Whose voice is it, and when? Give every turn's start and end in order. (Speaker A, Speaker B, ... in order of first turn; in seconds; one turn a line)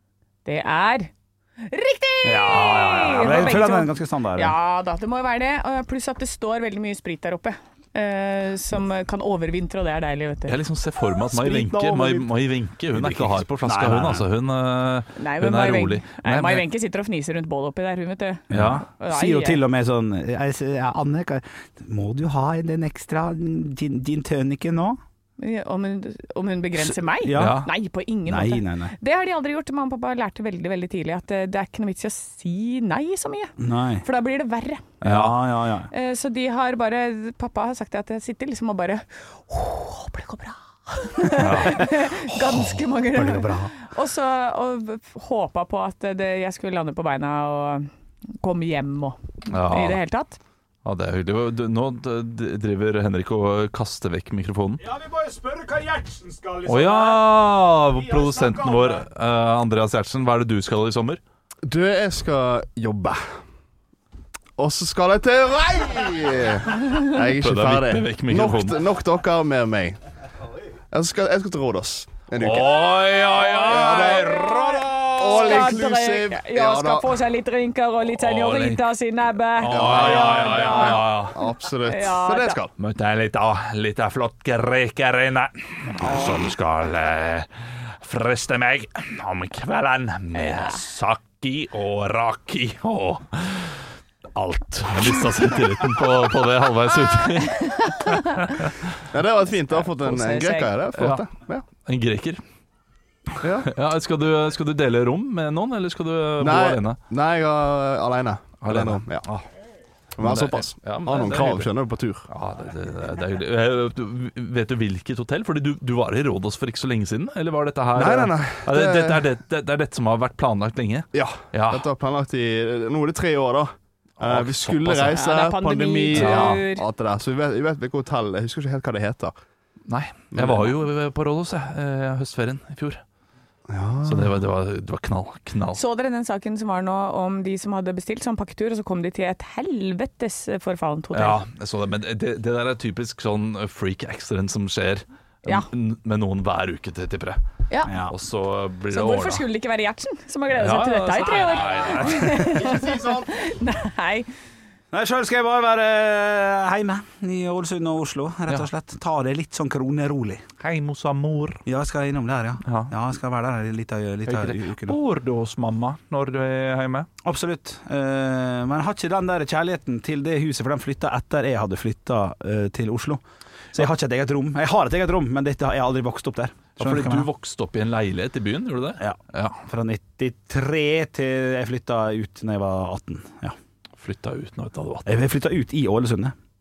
Speaker A: 0.5-10.6
Speaker B: 2.2-4.5
Speaker C: 10.5-16.7
Speaker B: 11.3-12.3
Speaker B: 12.9-14.2
Speaker A: 15.2-19.6
Speaker B: 18.5-25.0
Speaker C: 18.5-18.8
Speaker A: 25.4-35.0
Speaker B: 26.8-27.7
Speaker C: 27.3-27.7
Speaker B: 28.3-28.9
Speaker B: 33.6-34.1
Speaker C: 35.0-35.4
Speaker B: 35.0-35.9
Speaker A: 35.9-50.4
Speaker B: 41.4-43.8
Speaker C: 49.5-50.0
Speaker C: 50.9-54.8
Speaker B: 54.8-59.0
Speaker C: 56.7-61.2
Speaker D: 61.7-63.2
Speaker D: 64.6-70.0
Speaker C: 67.3-68.8
Speaker D: 70.9-72.9
Speaker C: 72.4-75.8
Speaker D: 73.6-74.5
Speaker A: 73.7-74.6
Speaker D: 75.0-77.1
Speaker A: 75.2-81.1
Speaker C: 78.1-78.9
Speaker C: 79.6-81.4
Speaker D: 79.7-82.7
Speaker A: 81.8-82.6
Speaker C: 82.8-98.1
Speaker A: 97.4-98.6
Speaker D: 99.1-101.7
Speaker A: 99.5-100.8
Speaker C: 101.0-101.3
Speaker C: 101.8-102.4
Speaker D: 103.4-103.7
Speaker C: 103.6-107.0
Speaker D: 106.4-109.2
Speaker C: 108.6-109.5
Speaker D: 110.2-112.3
Speaker C: 110.2-111.7
Speaker C: 112.3-121.9
Speaker D: 118.0-119.2
Speaker D: 121.1-129.3
Speaker C: 124.2-125.2
Speaker A: 125.1-126.8
Speaker C: 126.1-126.6
Speaker C: 129.9-133.0
Speaker D: 130.3-130.7
Speaker D: 133.7-134.3
Speaker C: 134.0-135.8
Speaker A: 135.7-141.4
Speaker C: 141.1-147.4
Speaker A: 147.7-147.9
Speaker B: 147.8-148.2
Speaker C: 148.1-149.4
Speaker A: 148.9-154.3
Speaker C: 150.5-152.5
Speaker B: 151.9-152.6
Speaker D: 152.5-153.3
Speaker B: 154.9-160.4
Speaker C: 160.6-161.6
Speaker B: 161.7-165.0
Speaker C: 162.6-162.9
Speaker C: 164.3-167.1
Speaker B: 167.2-173.2
Speaker B: 173.7-177.3
Speaker C: 176.8-179.6
Speaker B: 179.0-183.6
Speaker C: 184.0-185.1
Speaker B: 185.1-186.3